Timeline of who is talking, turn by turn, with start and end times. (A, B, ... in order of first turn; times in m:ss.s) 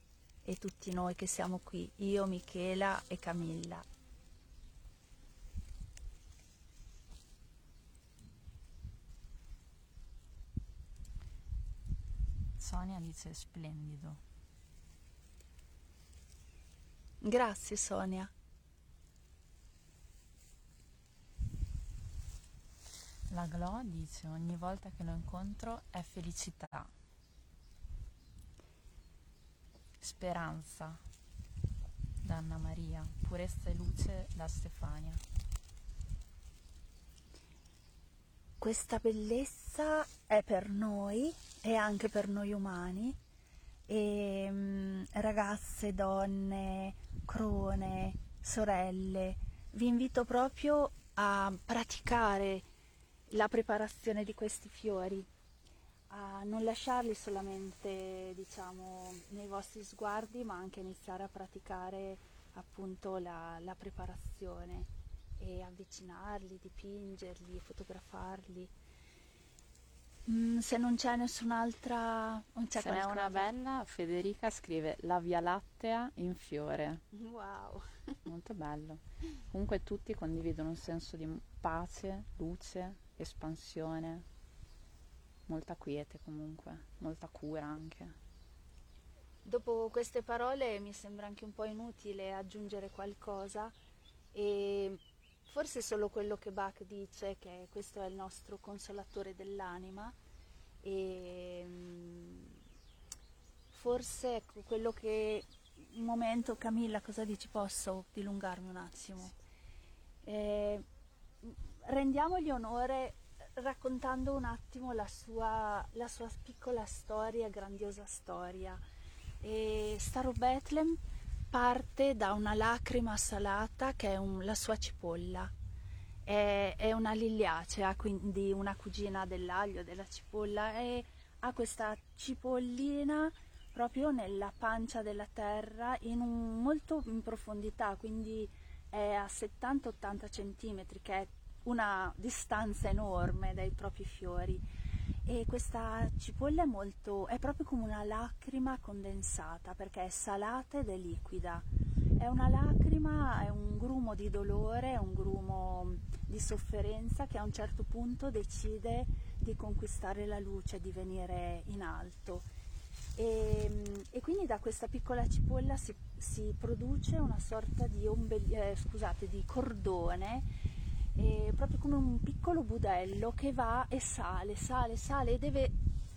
0:00.4-0:03.9 A
0:12.6-0:14.2 B
0:17.2-0:18.3 A
0:23.3-0:26.9 B
0:30.0-0:31.0 B
0:32.2-0:35.2 B
0:38.6-0:43.2 A
0:43.9-0:52.7 A
0:53.3-0:55.3 A
0:56.1-1:08.7 A
1:10.3-1:13.5 A
1:12.8-1:17.0 B
1:17.1-1:18.1 A
1:18.3-1:24.3 B
1:25.5-1:28.2 B
1:29.4-1:33.7 A
1:34.3-1:40.2 A
1:40.8-1:42.6 A
1:43.7-1:49.3 A
1:50.2-1:50.9 A
1:51.4-1:58.8 A
1:59.4-2:01.0 A
2:01.5-2:05.5 A
2:06.3-2:24.6 A
2:25.3-2:31.7 A
2:32.2-2:42.5 A
2:43.2-2:50.5 A
2:51.2-2:55.7 A